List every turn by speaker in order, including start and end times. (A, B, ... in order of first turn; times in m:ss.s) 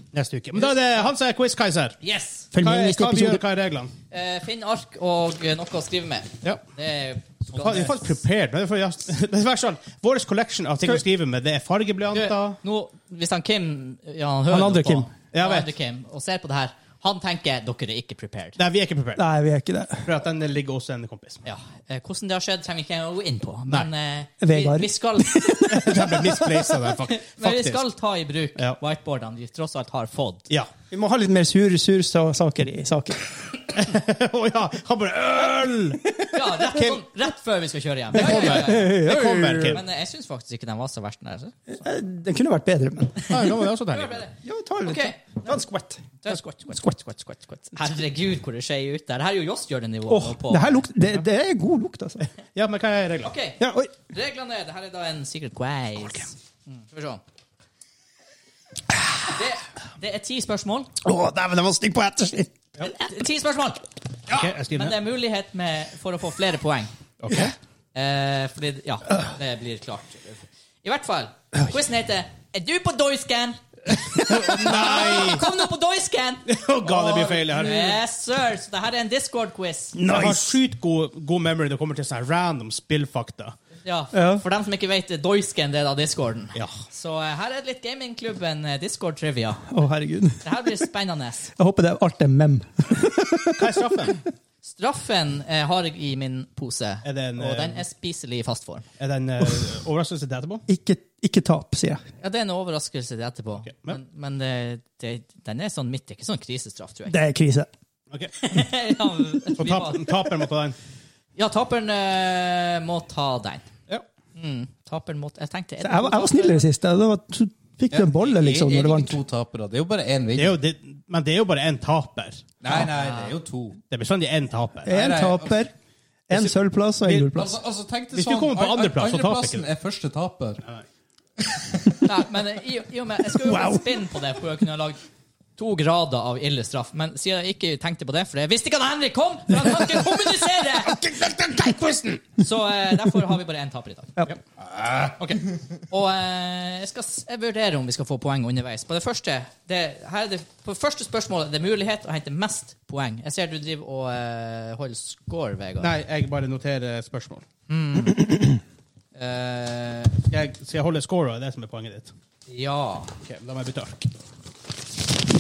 0:00.1-0:02.0 A
0:02.0-0:02.5 B
0:02.5-0:03.4 C
0:02.6-0:03.9 A
0:04.1-0:08.0 B
0:07.6-0:12.6 A
0:12.1-0:18.6 B
0:14.5-0:15.1 C
0:15.3-0:15.7 A
0:18.6-0:19.2 A
0:19.2-0:20.1 C
0:20.0-0:21.4 A
0:21.4-0:25.6 B
0:24.4-0:26.7 C
0:25.7-0:27.8 A
0:27.1-0:30.5 B
0:30.9-0:33.2 C
0:33.7-0:36.0 A
0:36.2-0:37.0 C
0:36.3-0:39.0 B
0:38.1-0:39.8 C
0:38.1-0:39.8 A
0:39.7-0:41.8 B
0:41.8-0:43.3 C
0:43.2-0:45.6 B
0:43.3-0:44.3 A
0:44.4-0:46.0 C
0:46.2-0:50.9 B
0:50.1-0:52.3 C
0:52.5-0:53.3 A
0:53.2-0:57.2 B
0:53.6-0:53.9 C
0:59.3-1:00.9 B
1:01.0-1:02.5 C
1:02.8-1:06.9 B
1:04.3-1:05.0 A
1:07.2-1:07.5 A
1:07.9-1:16.5 B
1:14.2-1:15.4 A
1:16.5-1:18.0 A
1:17.5-1:20.0 B
1:20.0-1:20.6 C
1:20.0-1:23.6 A
1:23.8-1:29.7 B
1:24.1-1:24.4 C
1:29.7-1:30.4 C
1:30.4-1:31.5 B
1:31.6-1:33.7 C
1:33.6-1:34.2 A
1:34.6-1:38.9 B
1:37.0-1:37.8 A
1:39.0-1:40.6 A
1:40.7-1:42.0 C
1:42.2-1:47.2 B
1:43.6-1:44.0 A
1:47.1-1:47.7 C
1:48.4-1:50.2 B
1:49.6-1:50.8 A
1:51.4-1:53.7 B
1:54.4-1:56.7 B
1:55.8-1:59.2 C
1:57.9-2:00.6 D
2:00.4-2:02.4 A
2:02.6-2:03.8 D
2:02.8-2:03.3 B
2:03.9-2:04.9 A
2:04.8-2:05.7 C
2:04.9-2:05.7 D
2:06.3-2:07.5 C
2:07.0-2:07.3 A
2:07.2-2:10.6 D
2:08.1-2:09.7 A
2:11.4-2:12.0 D
2:12.0-2:15.0 B
2:13.4-2:13.8 C
2:15.6-2:21.0 B
2:20.9-2:22.2 A
2:22.4-2:24.2 B
2:24.6-2:25.2 D
2:25.2-2:25.4 A
2:25.9-2:35.9 B
2:35.8-2:37.4 A
2:37.7-2:38.6 B
2:39.2-2:40.2 B
2:40.3-2:42.1 A
2:42.5-2:43.1 B
2:43.2-2:44.1 A